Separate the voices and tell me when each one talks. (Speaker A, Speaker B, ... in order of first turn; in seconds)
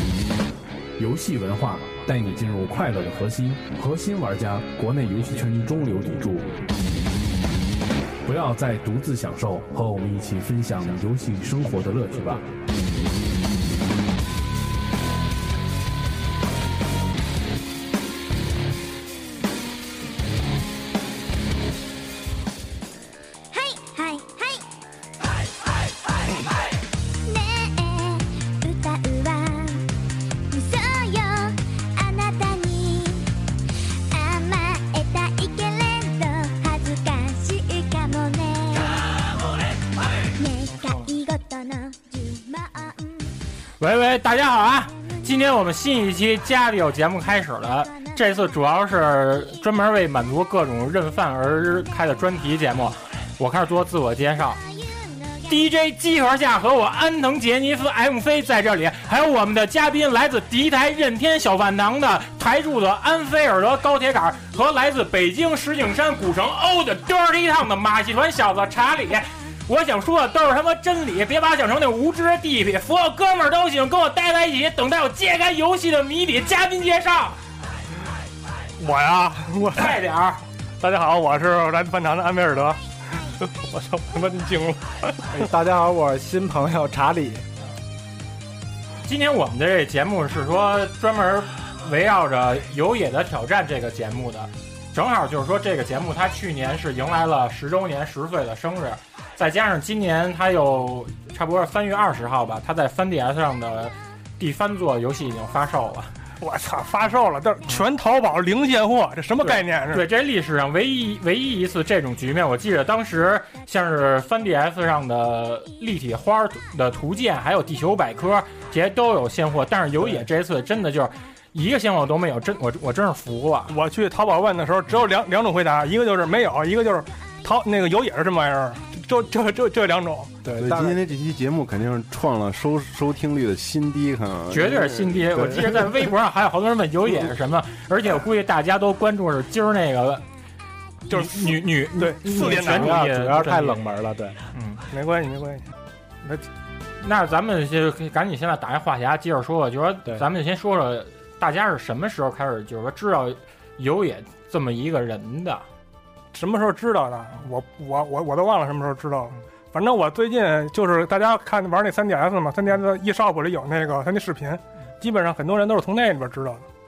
Speaker A: 1.0-6.6, 8.2-12.6
Speaker B: 23.5-24.7, 27.2-29.9, 30.5-33.3, 34.1-39.3, 40.3-43.4, 47.8-48.3, 54.5-55.7
Speaker C: 43.8-54.6, 55.5-77.4, 79.8-80.4, 89.0-106.1, 109.4-123.8, 134.5-140.2, 141.1-143.8, 144.5-144.9, 147.0-155.7
Speaker D: 78.8-80.0, 80.8-85.5, 106.4-110.1, 123.7-130.4, 141.1-143.0, 144.9-145.7, 156.3-166.7
Speaker E: 85.3-87.5, 130.4-131.0, 142.3-144.4
Speaker F: 130.6-135.8